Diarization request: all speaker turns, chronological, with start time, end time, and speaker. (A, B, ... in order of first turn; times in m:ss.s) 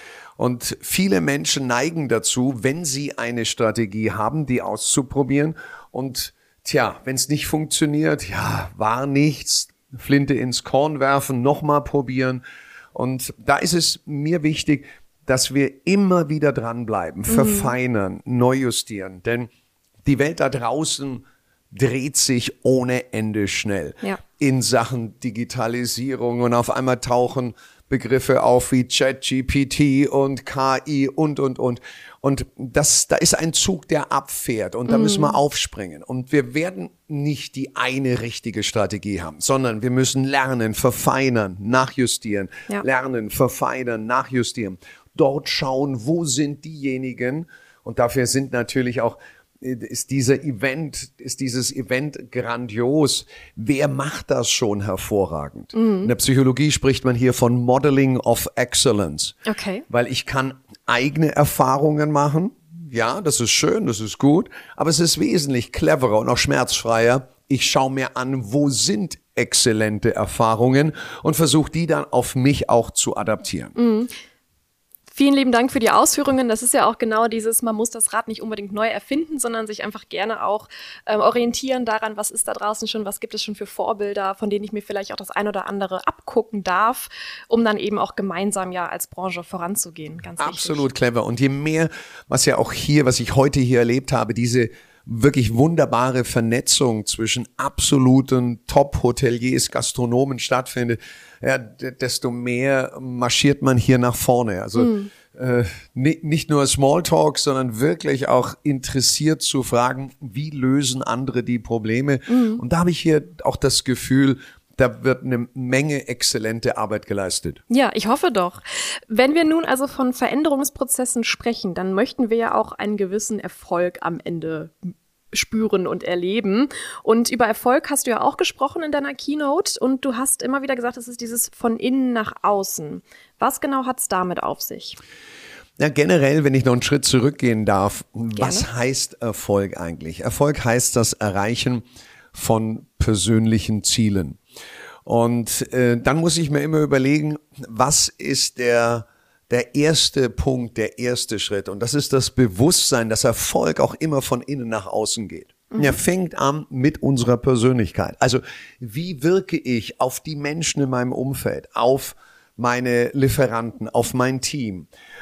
0:00.4-0:12.4 A
0:12.9-0:19.5 A
0:17.3-0:17.7 B
0:20.0-0:59.4 A
0:34.9-0:35.4 B
0:55.7-0:56.1 B
0:59.4-0:59.8 B
0:59.9-1:13.8 A
1:13.8-1:14.1 B
1:15.1-1:30.8 B
1:30.4-1:57.6 A
1:44.8-1:45.1 B
1:52.3-1:52.6 B
1:57.7-2:04.8 B
2:05.3-2:15.0 B
2:15.8-2:21.8 A
2:18.4-2:18.7 B
2:22.3-2:24.4 A
2:25.0-2:44.9 A
2:35.7-2:36.0 B